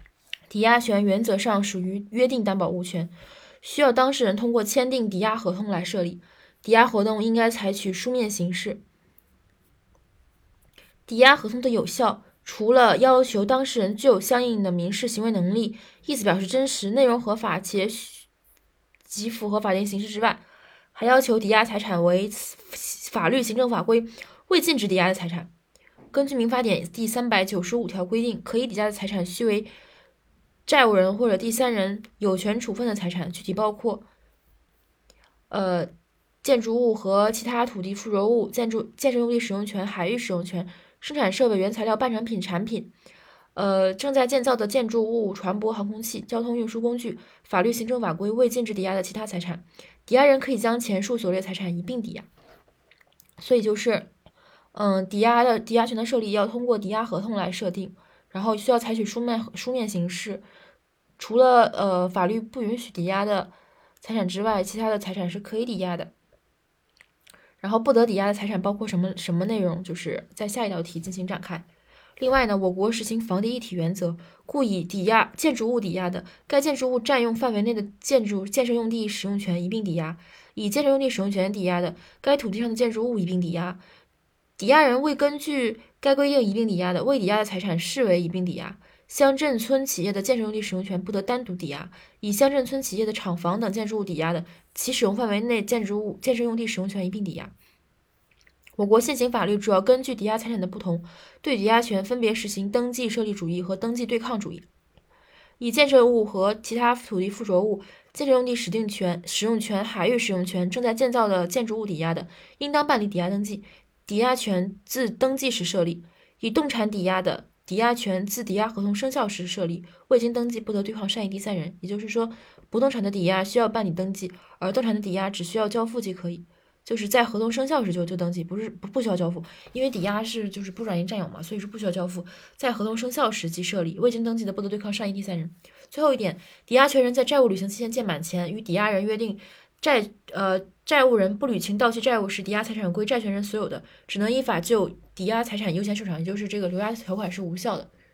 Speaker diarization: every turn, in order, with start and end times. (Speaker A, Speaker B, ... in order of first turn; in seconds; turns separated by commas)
Speaker A: 0.5-8.8, Speaker A: 11.1-18.2, Speaker A: 19.1-25.5, Speaker A: 26.1-29.7, Speaker A: 30.6-34.0, Speaker A: 35.5-35.9, Speaker A: 36.4-42.9, Speaker A: 43.5-52.3, Speaker A: 53.4-54.1, Speaker A: 54.7-60.4, Speaker A: 61.2-66.1, Speaker A: 67.6-71.7, Speaker A: 72.2-83.8, Speaker A: 84.6-97.5, Speaker A: 98.8-104.7, Speaker A: 105.6-147.9